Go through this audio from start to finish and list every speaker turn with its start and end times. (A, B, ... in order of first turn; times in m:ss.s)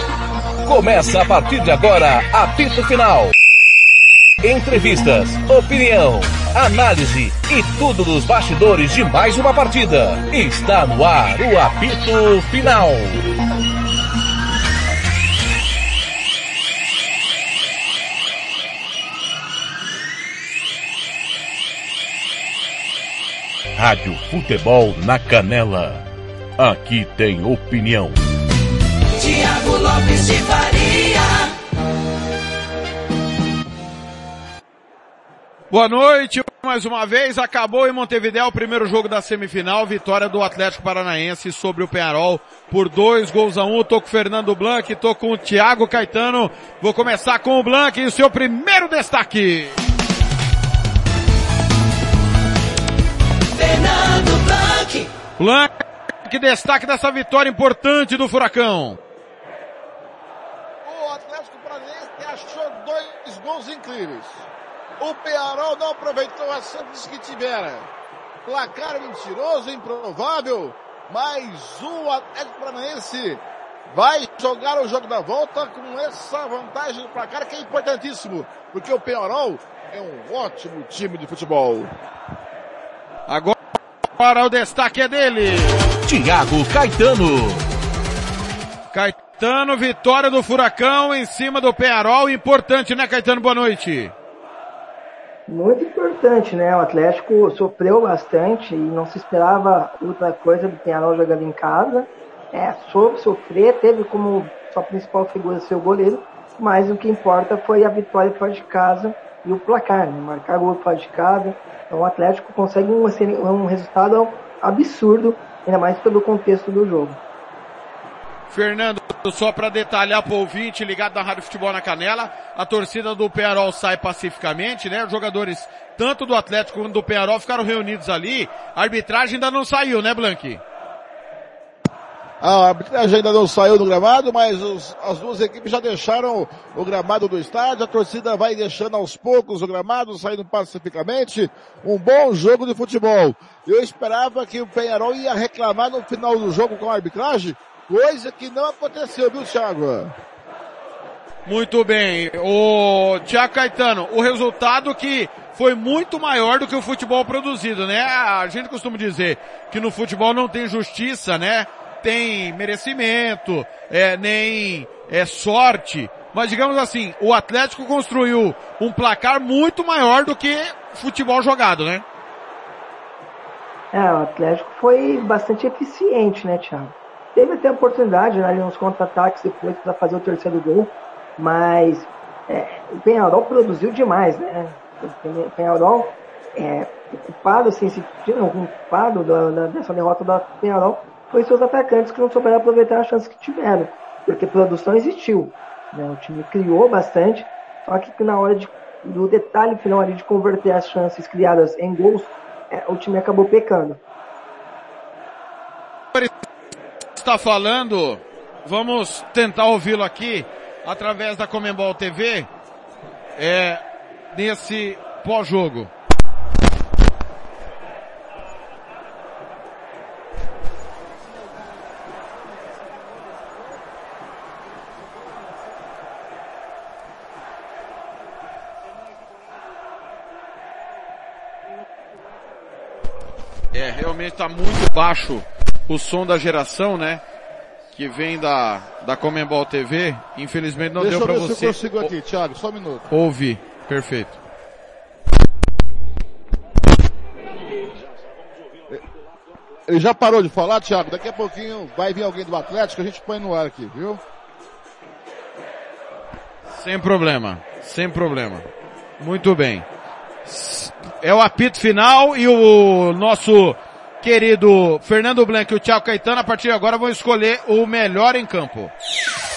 0:00.6-0:03.3 A
0:04.4-0:13.2 A
0:23.8-0:26.0 A
0:26.6-0:28.2 A
0:29.2-0:31.5 B
0:35.7-0:49.8 C
0:53.5-0:55.1 B
0:55.4-0:55.7 C
0:56.2-0:59.0 C
1:00.8-1:04.5 D
1:05.0-1:07.9 D
1:08.4-1:21.9 D
1:23.3-1:23.5 C
1:24.2-1:25.8 C
1:26.0-1:27.6 A
1:28.9-1:34.1 C
1:35.5-1:57.2 E
1:58.5-2:10.6 C
2:12.4-2:30.1 D
2:31.4-2:52.0 C
2:53.9-3:24.0 E
3:27.2-3:32.5 C
3:33.4-3:35.9 C
3:53.7-3:57.2 C
3:57.9-4:02.1 C
4:01.0-4:03.1 D
4:03.1-4:04.4 C
4:09.9-4:14.2 D
4:16.7-4:18.7 C
4:19.2-4:19.8 C
4:20.4-4:28.9 C